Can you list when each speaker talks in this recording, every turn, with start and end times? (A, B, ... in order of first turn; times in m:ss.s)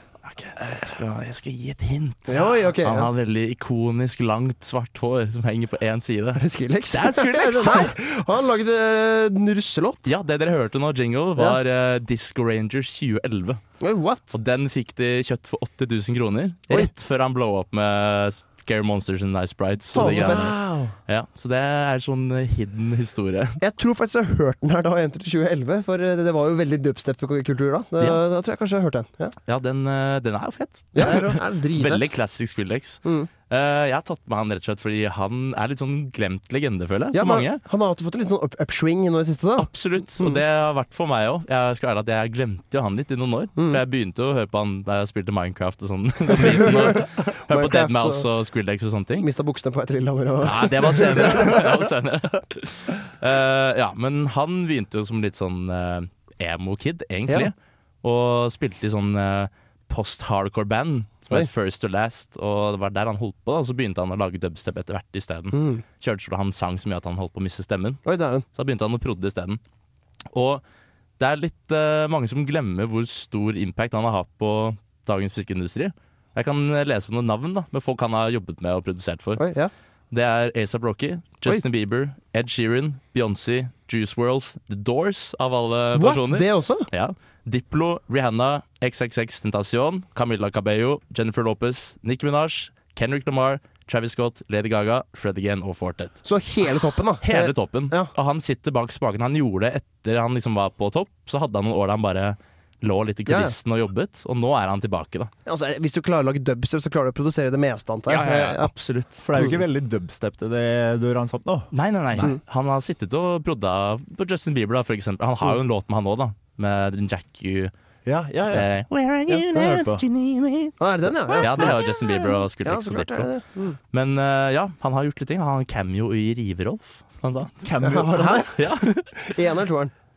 0:00.2-0:07.9 A
0:02.3-0:03.1 B
0:06.4-0:10.1 B
0:10.0-0:13.6 A
0:13.8-0:14.3 B
0:14.3-0:23.6 A
0:19.9-0:20.6 B
0:20.0-0:20.9 C
0:23.6-0:29.3 B
0:29.4-0:37.6 A
0:30.9-0:32.0 B
0:31.0-0:31.3 C
0:33.0-0:33.3 B
0:37.1-0:40.4 B
0:39.6-0:49.3 A
0:46.4-0:48.2 B
0:49.2-0:51.7 B
0:50.4-1:08.0 A
1:05.5-1:05.8 B
1:08.0-1:08.4 B
1:08.5-1:09.6 A
1:10.3-1:10.6 A
1:11.2-1:19.4 A
1:19.4-1:19.7 B
1:20.1-1:36.2 A
1:25.9-1:26.9 B
1:36.2-1:38.1 B
1:37.2-1:45.3 A
1:43.3-1:43.5 B
1:45.4-1:48.7 B
1:48.1-1:49.2 A
1:49.2-1:52.3 C
1:51.7-1:57.7 A
1:58.0-1:58.7 C
1:58.5-2:00.7 A
1:59.3-2:00.0 C
2:00.8-2:03.8 B
2:01.3-2:03.3 A
2:03.9-2:07.7 A
2:07.6-2:08.5 C
2:07.8-2:09.9 B
2:08.5-2:09.1 A